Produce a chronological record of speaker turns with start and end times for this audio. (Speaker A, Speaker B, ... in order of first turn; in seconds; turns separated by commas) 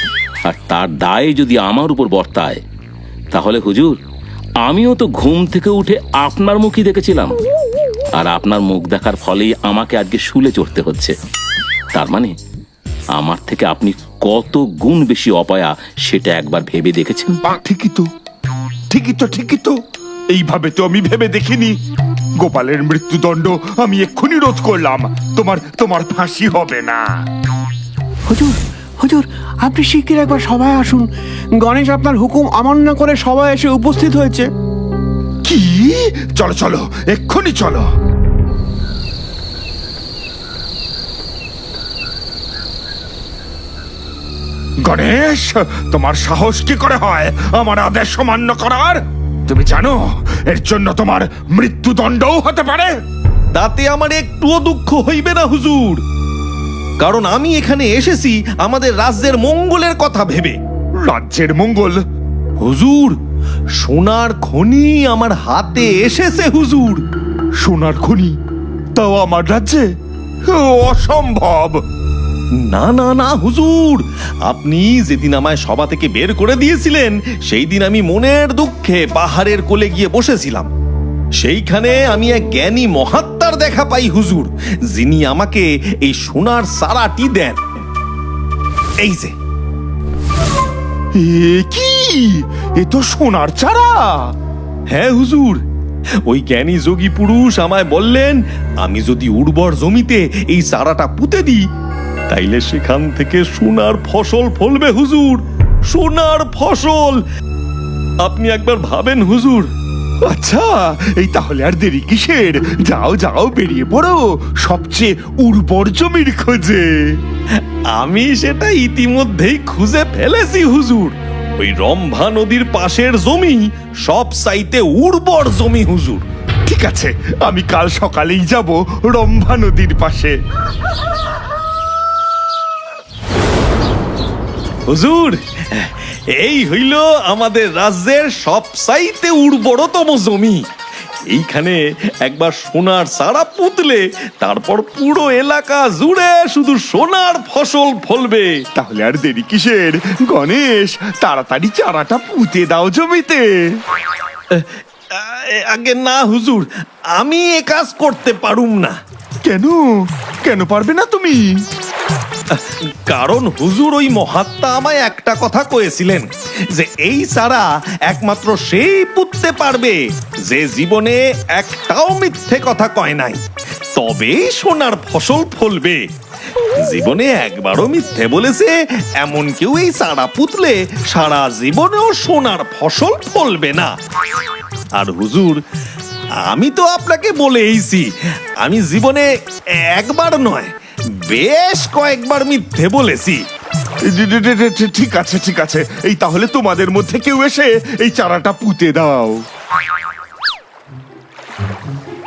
Speaker A: 0.5-2.6, Speaker A: 3.3-3.9, Speaker A: 4.6-7.4, Speaker A: 8.2-11.1, Speaker A: 11.9-12.3, Speaker A: 13.2-17.4, Speaker B: 17.6-18.1, Speaker B: 18.9-19.8, Speaker B: 20.3-21.8, Speaker B: 22.4-27.0, Speaker C: 28.3-31.1, Speaker C: 31.6-34.5, Speaker B: 35.4-37.9, Speaker B: 44.9-52.9, Speaker D: 53.5-56.0, Speaker D: 57.0-60.6, Speaker B: 61.1-62.0, Speaker D: 62.6-63.2, Speaker D: 63.8-67.0, Speaker B: 67.6-68.3, Speaker B: 69.0-69.9, Speaker B: 70.5-71.8, Speaker D: 72.6-80.7, Speaker D: 81.4-87.6, Speaker D: 89.0-89.3, Speaker B: 91.2-94.3, Speaker D: 94.9-95.6, Speaker D: 96.3-101.6, Speaker D: 102.3-107.2, Speaker D: 108.2-109.7, Speaker B: 110.3-117.2, Speaker D: 117.9-126.2, Speaker B: 126.7-130.3, Speaker D: 134.9-140.6, Speaker D: 141.3-148.6, Speaker B: 148.8-153.4, Speaker D: 154.5-158.9, Speaker B: 159.4-159.8, Speaker B: 160.4-161.4, Speaker D: 162.5-173.4, Speaker D: 174.0-176.0, Speaker D: 176.8-183.9, Speaker D: 184.9-185.6, Speaker D: 186.4-188.1, Speaker D: 188.6-189.3, Speaker D: 189.8-190.7, Speaker D: 191.3-193.4, Speaker B: 194.1-199.4